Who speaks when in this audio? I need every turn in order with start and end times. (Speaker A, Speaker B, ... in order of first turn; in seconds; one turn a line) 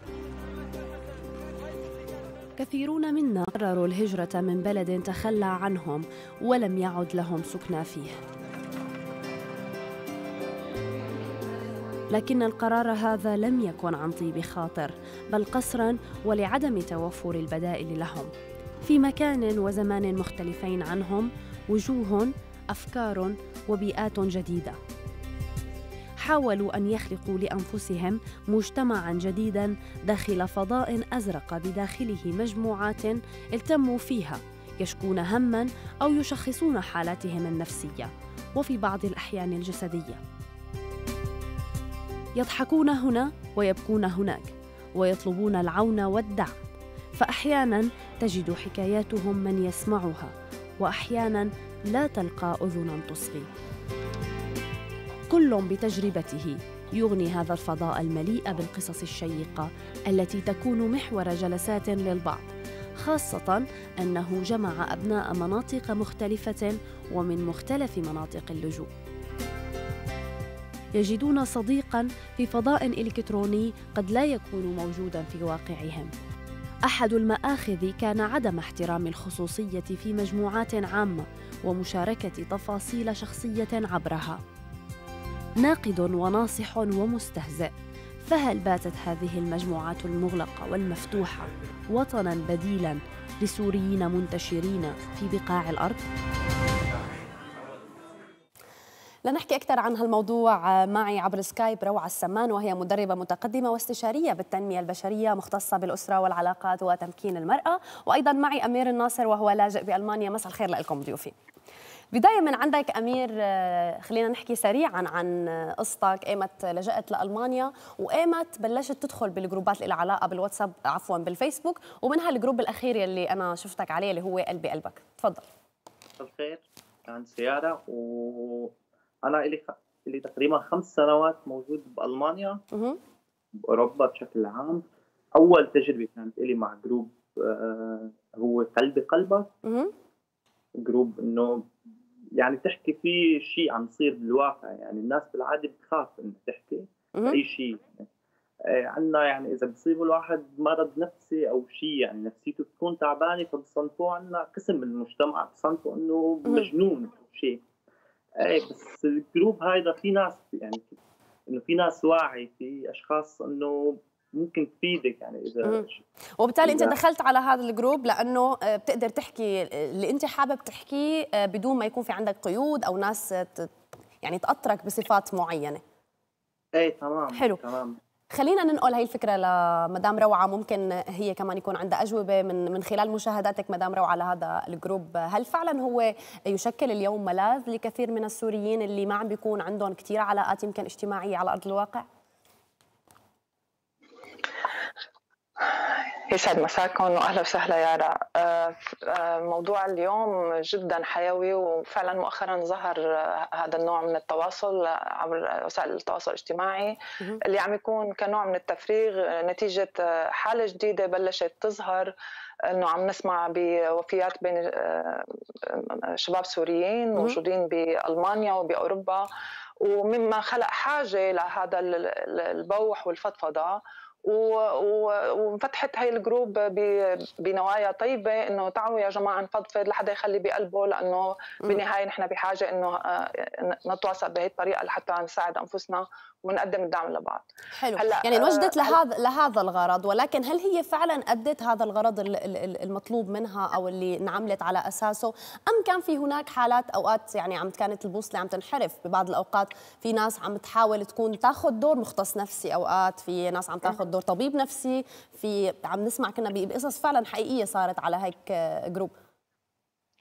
Speaker A: 2.6-8.2
Speaker A: 12.1-18.3
Speaker A: 18.8-24.8
Speaker A: 26.2-40.2
Speaker A: 42.4-46.5
Speaker A: 47.1-53.5
Speaker A: 55.3-68.9
Speaker A: 71.0-76.1
Speaker A: 76.8-84.4
Speaker A: 85.6-87.7
Speaker A: 88.2-96.0
Speaker A: 99.2-111.3
Speaker A: 112.1-125.4
Speaker B: 126.2-128.7
Speaker B: 129.2-132.6
Speaker A: 132.7-133.0
Speaker B: 133.6-134.8
Speaker B: 135.3-139.5
Speaker A: 139.6-139.9
Speaker B: 140.8-141.7
Speaker B: 142.4-148.1
Speaker A: 147.1-147.4
Speaker B: 148.7-157.6
Speaker B: 158.4-160.9
Speaker B: 161.5-166.0
Speaker A: 166.4-175.8
Speaker B: 166.6-166.9
Speaker B: 176.8-177.9
Speaker A: 178.3-192.1
Speaker C: 195.6-212.1
Speaker C: 212.7-219.3
Speaker C: 219.8-238.9
Speaker A: 237.7-259.1